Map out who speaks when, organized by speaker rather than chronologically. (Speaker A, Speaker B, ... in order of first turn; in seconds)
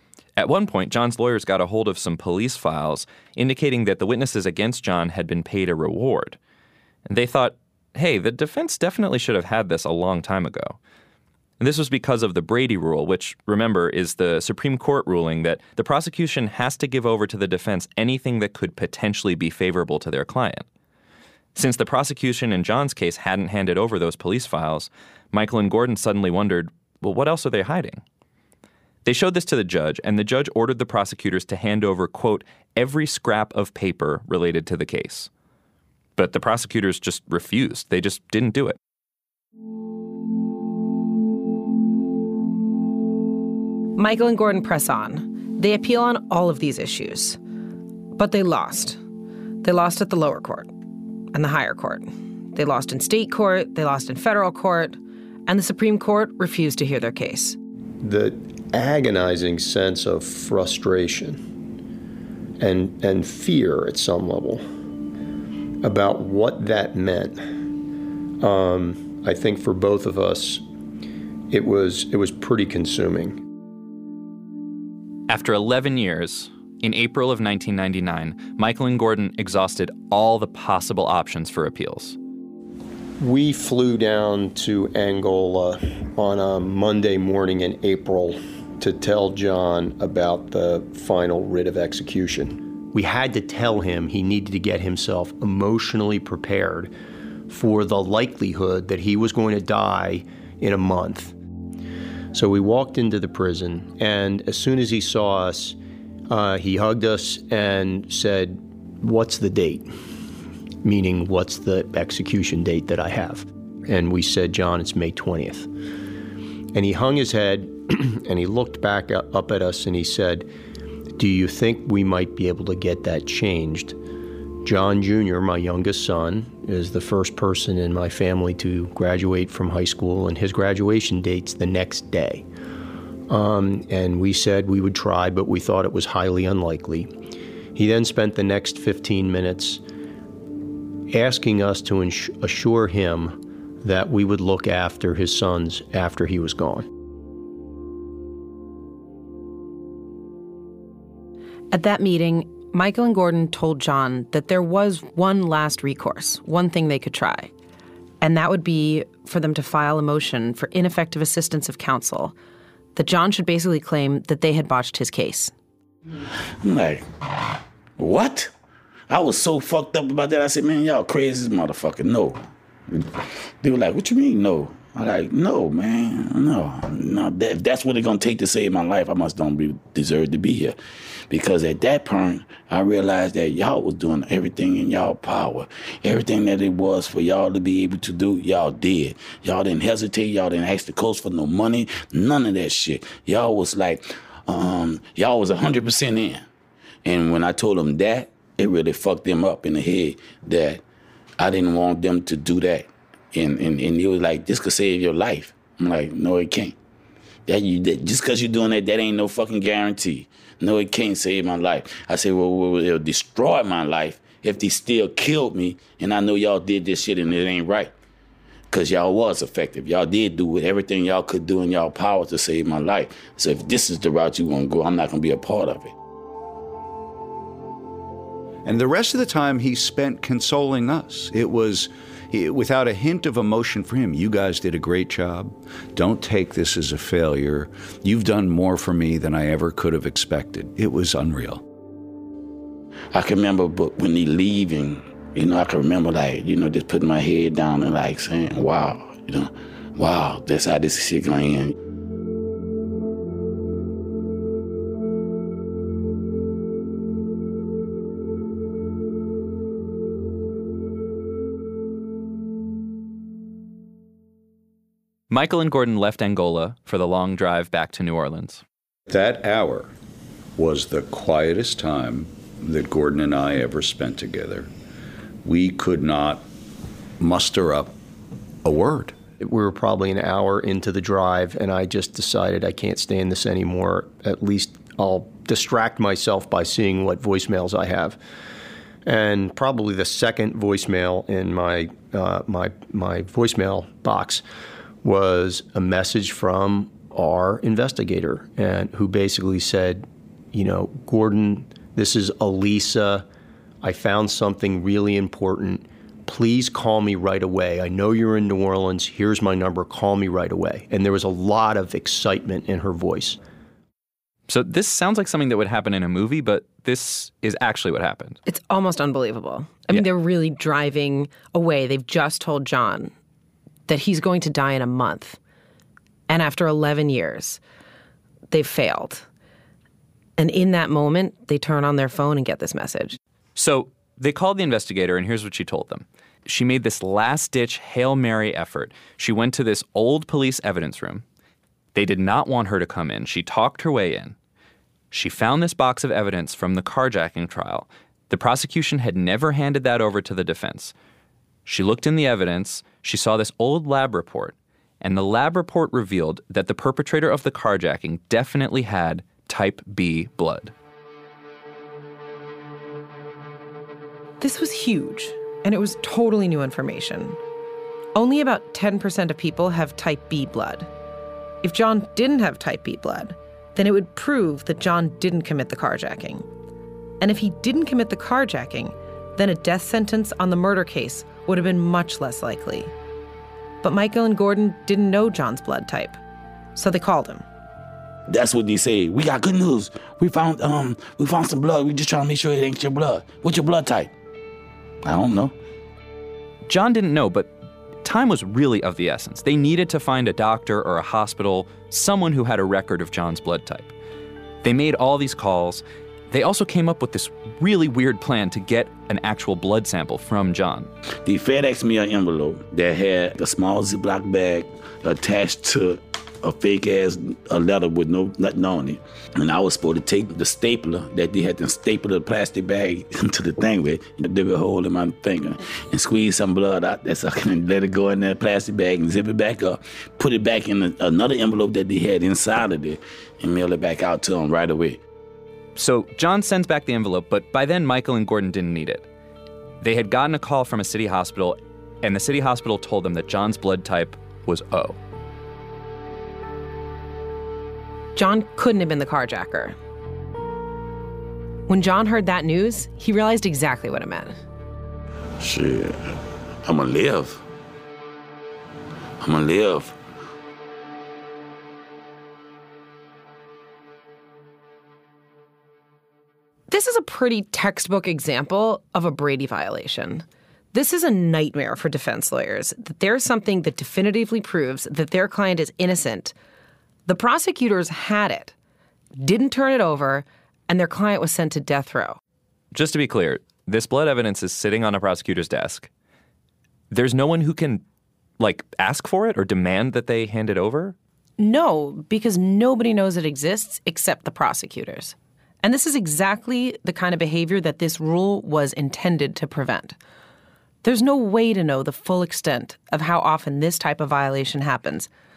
Speaker A: 0.4-6.4, 7.0-10.8, 11.6-20.6, 21.6-28.0, 29.0-35.3, 36.2-38.8, 75.3-82.2, 265.3-268.6, 314.5-318.4, 333.6-341.2, 341.9-344.4, 345.1-350.9, 351.6-360.7, 396.7-403.9, 404.6-410.9, 435.8-439.1, 439.8-445.0, 482.7-485.9, 486.9-487.8, 488.4-490.9
Speaker B: 44.0-47.4, 48.1-49.0, 49.6-50.7, 51.3-57.6, 151.7-157.5, 158.2-162.3, 162.9-165.5, 318.4-323.1, 323.9-325.4, 326.3-327.6, 328.5-329.2, 330.4-333.2, 364.4-367.4, 368.1-370.9, 371.6-376.4, 377.2-382.9, 383.8-386.2, 386.8-387.4, 448.1-449.8, 451.7-454.3, 466.7-476.3, 477.1-478.5, 479.2-482.2, 491.4-500.0, 500.8-505.1
Speaker C: 58.0-61.5, 62.6-64.6, 65.8-67.6, 68.4-70.6, 71.5-73.4, 83.2-96.9, 97.5-101.4, 102.3-105.8, 106.3-109.9, 110.8-115.7, 116.7-120.5, 121.2-124.0, 124.6-132.4, 133.3-137.1, 137.7-139.8, 141.1-146.9, 279.4-288.2, 289.0-294.4, 295.0-303.3, 303.8-313.4
Speaker D: 166.2-167.1, 168.0-168.5, 169.1-180.8, 181.3-196.4, 197.0-200.8, 201.4-206.8, 207.5-217.9, 218.7-225.9, 243.1-251.7, 388.3-394.1, 395.0-395.5, 411.2-435.0, 455.4-457.4, 459.2-459.9
Speaker E: 228.6-241.6, 269.1-269.9, 270.6-274.7, 275.4-276.4, 277.2-277.9, 278.6-279.1